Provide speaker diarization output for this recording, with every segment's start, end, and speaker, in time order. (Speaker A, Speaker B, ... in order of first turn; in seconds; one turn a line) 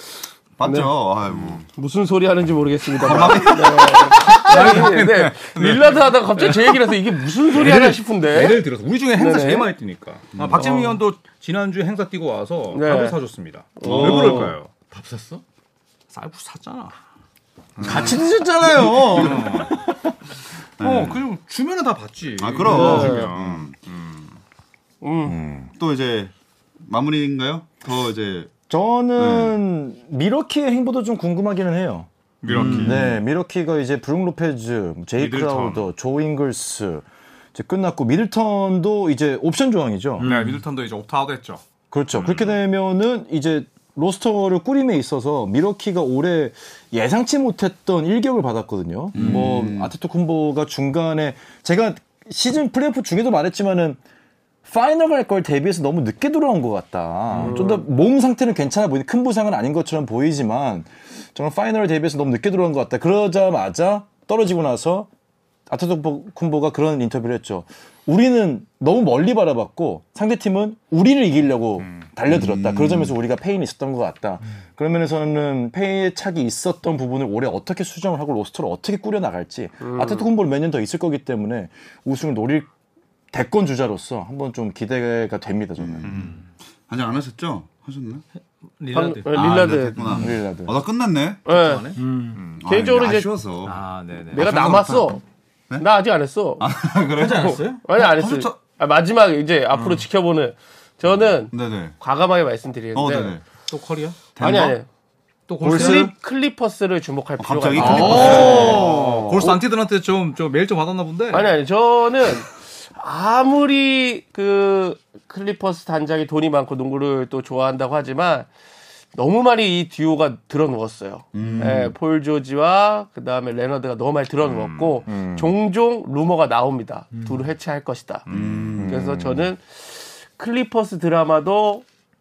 Speaker A: 0.6-1.7
Speaker B: 0.6-0.9
Speaker B: 1.8-8.6
Speaker A: 3.0-4.7
Speaker C: 3.2-3.5
Speaker C: 4.2-14.7
Speaker D: 4.6-4.9
Speaker B: 9.2-9.7
Speaker A: 10.3-10.7
Speaker B: 10.5-11.0
Speaker B: 12.7-13.2
Speaker B: 13.8-14.5
Speaker A: 13.8-14.5
Speaker D: 14.9-15.4
Speaker C: 16.1-16.9
Speaker C: 17.8-18.2
Speaker A: 17.8-19.7
Speaker E: 17.8-20.1
Speaker C: 18.7-19.7
Speaker A: 20.8-21.2
Speaker C: 20.8-24.4
Speaker A: 22.4-23.7
Speaker B: 22.7-23.3
Speaker D: 22.7-23.1
Speaker B: 25.0-25.4
Speaker E: 25.2-25.7
Speaker A: 25.8-28.6
Speaker E: 28.7-40.3
Speaker A: 29.2-29.6
Speaker C: 32.4-33.2
Speaker D: 32.5-33.1
Speaker C: 35.2-35.9
Speaker D: 40.2-40.6
Speaker C: 40.2-42.6
Speaker E: 41.9-54.0
Speaker A: 49.1-49.9
Speaker D: 49.1-49.5
Speaker E: 54.6-65.1
Speaker B: 57.4-57.9
Speaker E: 65.7-82.7
Speaker A: 72.3-73.1
Speaker B: 79.8-80.3
Speaker E: 83.3-86.1
Speaker A: 85.8-88.2
Speaker C: 86.0-86.4
Speaker C: 88.8-90.0
Speaker B: 88.9-90.1
Speaker A: 89.3-91.5
Speaker D: 90.1-90.3
Speaker E: 90.2-90.7
Speaker B: 91.5-91.9
Speaker C: 91.5-92.6
Speaker D: 92.0-92.4
Speaker A: 92.6-95.9
Speaker B: 92.7-93.3
Speaker C: 93.6-94.5
Speaker B: 94.3-95.2
Speaker B: 95.8-96.7
Speaker A: 96.6-98.6
Speaker D: 97.2-97.8
Speaker B: 97.3-103.3
Speaker C: 99.7-100.0
Speaker A: 101.5-102.0
Speaker A: 102.9-103.4
Speaker C: 103.7-104.2
Speaker A: 104.3-104.8
Speaker B: 104.4-104.9
Speaker C: 105.5-106.1
Speaker E: 105.6-106.1
Speaker B: 105.6-109.6
Speaker A: 107.4-108.8
Speaker E: 107.7-109.5
Speaker C: 107.8-111.5
Speaker B: 111.3-118.5
Speaker B: 119.1-128.3
Speaker A: 121.3-121.9
Speaker E: 121.6-121.8
Speaker C: 124.4-125.0
Speaker E: 125.1-125.5
Speaker D: 127.1-127.4
Speaker C: 128.3-128.7
Speaker A: 128.3-129.1
Speaker E: 128.8-129.5
Speaker B: 128.8-131.8